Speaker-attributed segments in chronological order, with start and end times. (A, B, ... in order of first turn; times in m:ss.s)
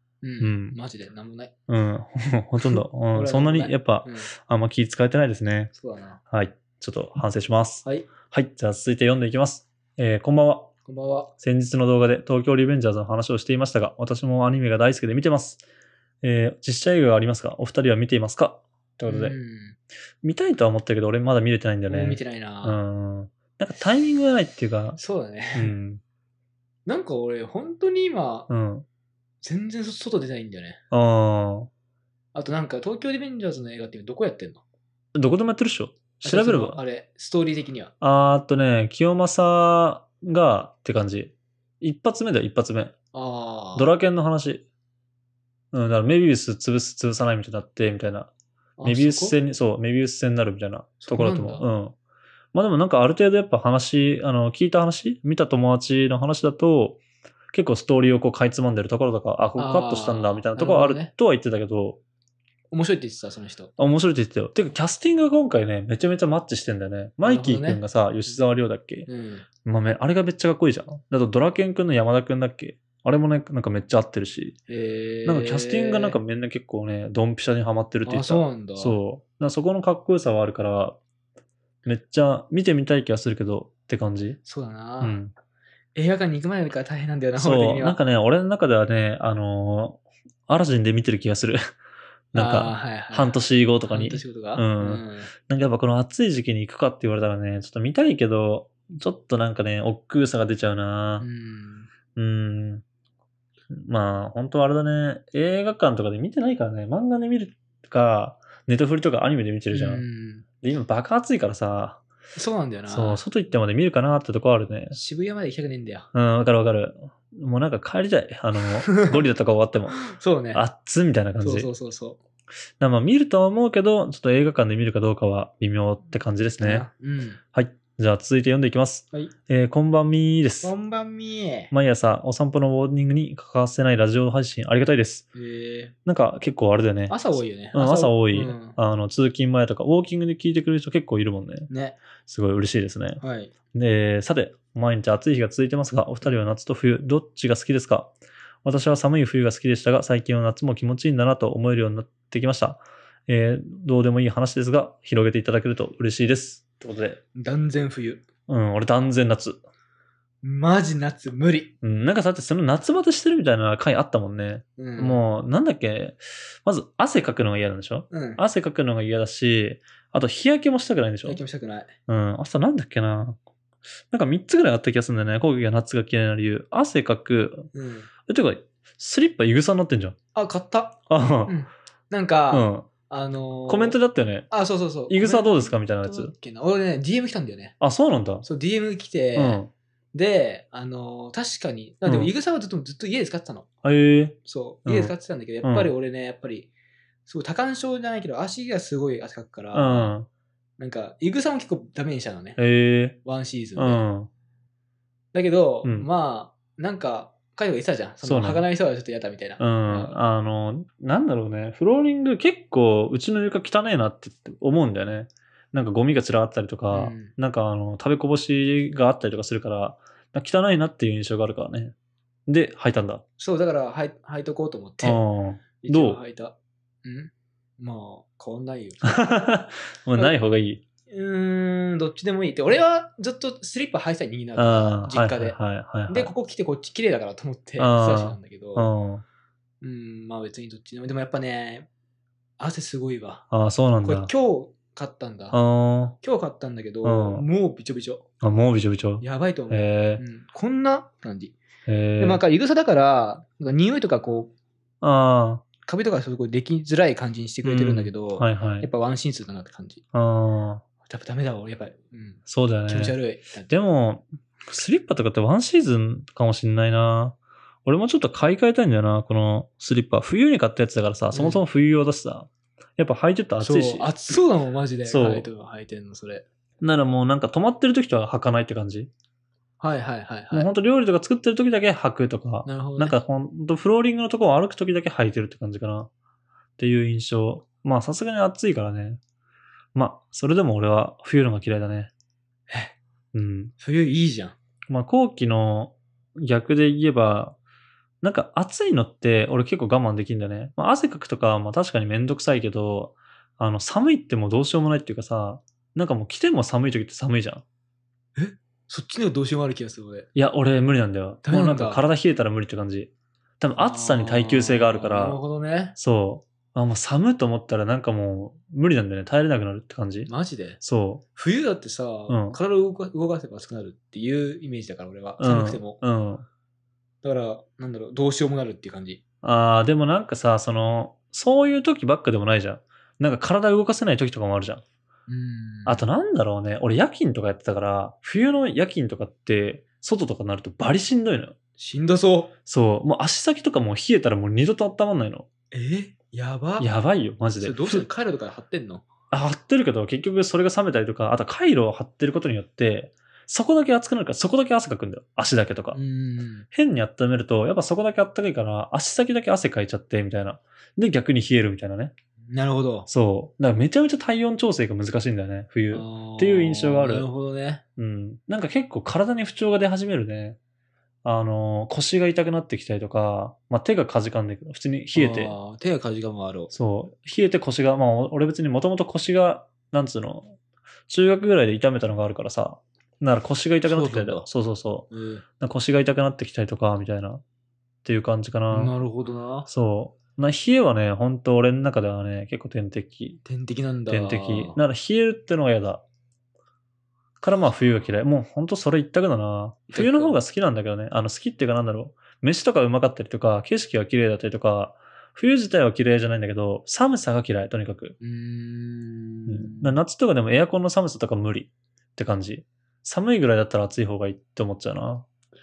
0:00.2-0:01.5 A
0:00.4-0:00.8 B
0:01.7-0:05.7 B
0:03.1-0:04.3 A
0:05.7-0:06.2 A
0:06.3-0:10.7 B
0:07.8-0:08.1 A
0:10.8-0:11.3 A
0:11.4-0:15.6 B
0:16.2-0:19.3 B
0:19.1-0:19.8 A
0:20.2-0:25.0 B
0:21.9-0:22.8 A
0:25.0-0:25.8 A
0:25.6-0:26.0 B
0:26.9-0:28.5 A
0:28.5-0:28.8 B
0:29.4-0:30.8 A
0:30.9-0:31.7 B
0:32.3-0:34.6 A
0:35.2-0:36.8 B
0:36.2-0:37.9 A
0:38.0-0:43.0 B
0:43.1-0:43.9 A
0:43.8-0:44.6 B
0:45.7-0:48.3 B
0:48.8-0:49.4 A
0:48.8-0:52.0 B
0:51.0-0:51.6 A
0:52.5-0:57.0 B
0:57.5-1:02.0 B
0:59.6-1:01.1 A
1:02.7-1:03.7 A
1:03.8-1:09.1 B
1:07.2-1:07.8 A
1:09.1-1:09.5 A
1:09.6-1:14.6 B
1:14.7-1:16.2 A
1:15.3-1:21.0 B
1:18.0-1:19.0 A
1:21.8-1:24.4 B
1:24.4-1:25.2 A
1:25.0-1:25.3 B
1:26.0-1:28.0 A
1:27.4-1:31.6 B
1:32.3-1:41.3 B
1:32.3-1:35.3 A
1:41.2-1:41.9 A
1:42.2-1:42.8 B
1:43.7-1:50.0 B
1:49.7-1:50.5 A
1:50.6-1:52.0 B
1:52.4-1:53.2 A
1:52.9-1:55.0 B
1:54.9-1:56.1 A
1:56.1-2:00.0 B
1:58.7-1:59.2 A
2:00.0-2:00.6 A
2:00.5-2:01.7 B
2:01.4-2:02.2 A
2:02.8-2:06.9 B
2:06.6-2:07.4 A
2:07.5-2:10.7 B
2:10.6-2:11.7 A
2:11.7-2:15.3 B
2:15.4-2:15.9 A
2:16.1-2:21.7 B
2:17.1-2:18.8 A
2:21.7-2:22.0 A
2:22.3-2:23.2 B
2:23.2-2:23.5 A
2:23.7-2:28.1 B
2:28.6-2:37.2 B
2:37.3-2:38.3 A
2:38.5-2:39.6 B
2:40.4-2:41.7 A
2:41.8-2:51.4 B
2:44.8-2:45.2 A
2:48.1-2:48.4 A
2:51.2-2:51.9 A
2:52.1-2:53.4 B
2:54.1-2:57.7 B
2:57.7-2:58.1 A
2:58.3-3:00.2 B
3:00.3-3:04.0 A
3:01.1-3:01.6 B
3:02.5-3:02.9 B
3:03.7-3:04.5 B
3:04.5-3:07.8 A
3:05.1-3:06.3 B
3:07.8-3:08.5 B
3:08.4-3:09.6 A
3:09.4-3:09.7 B
3:10.1-3:13.7 A
3:12.1-3:12.3 B
3:13.8-3:15.9 B
3:14.4-3:16.7 A
3:17.3-3:20.1 A
3:19.7-3:20.3 B
3:20.8-3:22.6 A
3:22.6-3:23.2 B
3:23.2-3:24.0 A
3:23.8-3:24.3 B
3:25.3-3:30.2 A
3:28.2-3:28.6 B
3:29.6-3:41.9 B
3:36.9-3:37.3 A
3:42.5-3:43.2 B
3:43.4-3:45.2 A
3:45.0-3:46.2 B
3:45.8-3:49.3 A
3:49.0-3:50.8 B
3:51.1-3:58.9 A
3:54.6-3:56.3 B
3:57.8-3:59.2 B
3:59.8-4:01.9 A
4:02.6-4:03.4 A
4:03.5-4:04.3 B
4:04.0-4:05.6 A
4:05.5-4:06.2 B
4:06.2-4:08.3 A
4:07.0-4:07.4 B
4:08.4-4:10.2 B
4:09.2-4:11.6 A
4:11.9-4:12.4 B
4:12.2-4:14.5 A
4:15.0-4:15.7 B
4:15.8-4:20.0 A
4:17.6-4:18.9 B
4:20.1-4:20.8 B
4:21.0-4:23.7 A
4:22.5-4:23.2 B
4:23.7-4:34.1 B
4:31.3-4:31.6 A
4:33.6-4:36.4 A
4:35.1-4:35.5 B
4:36.8-4:39.1 B
4:39.8-4:40.7 A
4:40.5-4:46.1 B
4:42.6-4:43.2 A
4:46.8-4:49.2 B
4:49.9-4:52.1 B
4:52.7-4:53.0 A
4:53.3-4:53.7 B
4:53.8-4:54.6 A
4:54.9-4:57.6 B
4:58.2-5:07.6 B
5:08.4-5:10.3 A
5:10.4-5:15.4 B
5:11.4-5:12.0 A
5:13.8-5:16.0 A
5:16.0-5:20.3 B
5:20.3-5:20.8 A
5:20.8-5:21.2 B
5:21.4-5:26.0 A
5:22.3-5:22.6 B
5:25.4-5:26.4 B
5:27.2-5:29.2 A
5:29.4-5:34.8 B
5:35.3-5:36.0 A
5:35.9-5:41.6 B
5:41.8-5:42.5 A
5:42.7-5:45.5 B
5:45.7-5:46.9 A
5:46.8-5:48.1 B
5:47.6-5:49.0 A
5:49.3-5:56.0 B
5:55.9-5:56.7 A
5:56.7-6:02.1 B
6:02.5-6:03.1 A
6:03.1-6:07.3 B
6:05.9-6:07.8 A
6:08.0-6:10.6 B
6:11.2-6:15.6 B
6:15.2-6:16.7 A
6:16.7-6:20.6 B
6:21.1-6:25.1 B
6:23.8-6:24.5 A
6:25.1-6:25.4 A
6:25.6-6:27.4 B
6:28.0-6:28.9 B
6:28.7-6:29.7 A
6:29.7-6:33.4 B
6:33.4-6:34.8 A
6:34.1-6:36.0 B
6:37.4-6:48.2 B
6:39.9-6:40.3 A
6:48.2-6:50.0 A
6:49.5-6:55.2 B